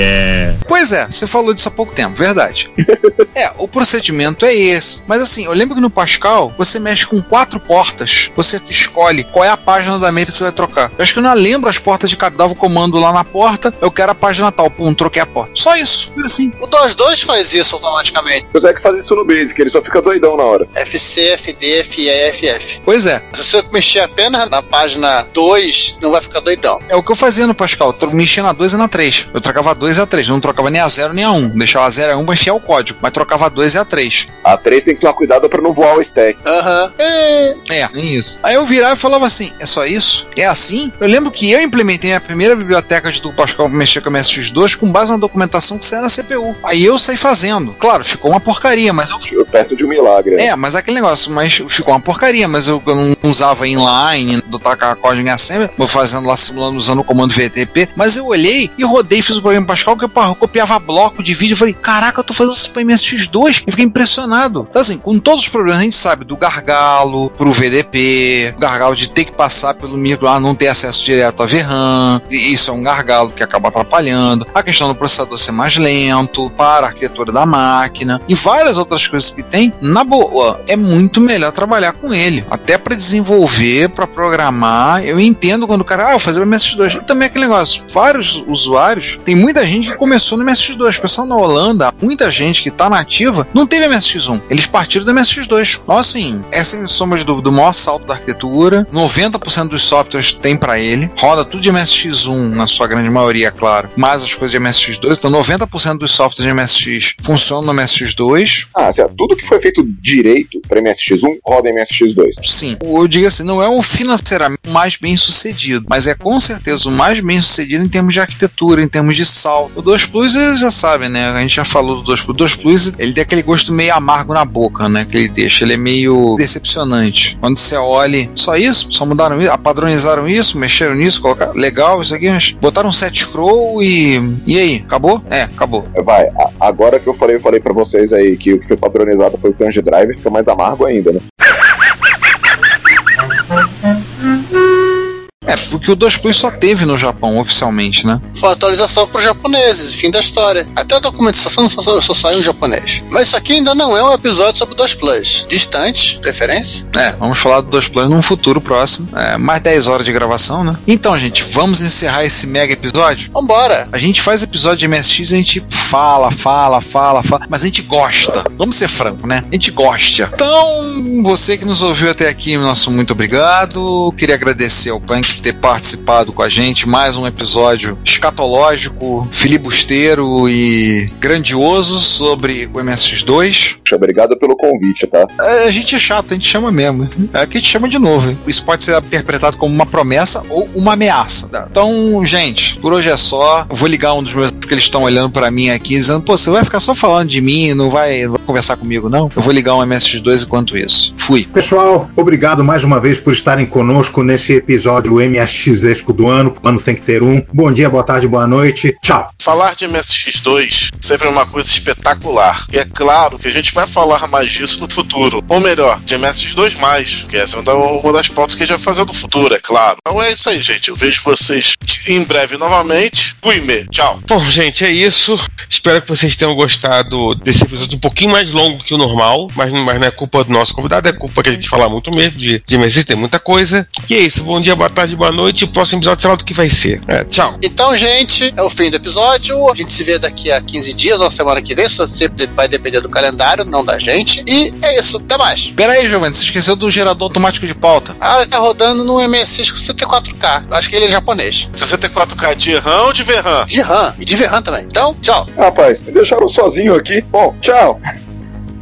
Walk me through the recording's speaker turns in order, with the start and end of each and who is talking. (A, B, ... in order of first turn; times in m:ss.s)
0:00.7-0:02.7 A
0:02.9-0:03.2 B
0:03.4-0:16.5 A
0:16.6-0:18.4 C
0:18.5-0:20.7 B
0:20.8-0:22.8 C
0:22.8-0:23.2 A
0:23.3-0:26.8 C
0:26.9-0:34.3 A
0:34.4-0:36.4 B
0:36.4-0:37.6 C
0:37.7-0:49.2 A
0:49.3-0:50.5 B
0:50.4-1:48.7 A
1:48.8-1:52.4 B
1:52.4-2:15.9 A
2:15.9-2:21.2 B
2:25.5-2:28.2 A
2:28.4-2:36.8 C
2:36.9-2:43.3 A
2:43.3-2:43.9 C
2:43.9-3:03.8 A
3:03.9-3:05.3 B
3:05.4-3:21.5 A
3:21.5-3:29.3 D
3:29.4-3:44.2 E
3:44.3-3:57.6 F
3:57.6-4:05.7 C
4:05.8-4:08.2 A
4:08.2-4:11.7 C
4:11.8-4:13.7 E
4:13.7-4:15.5 C
4:15.6-4:18.0 B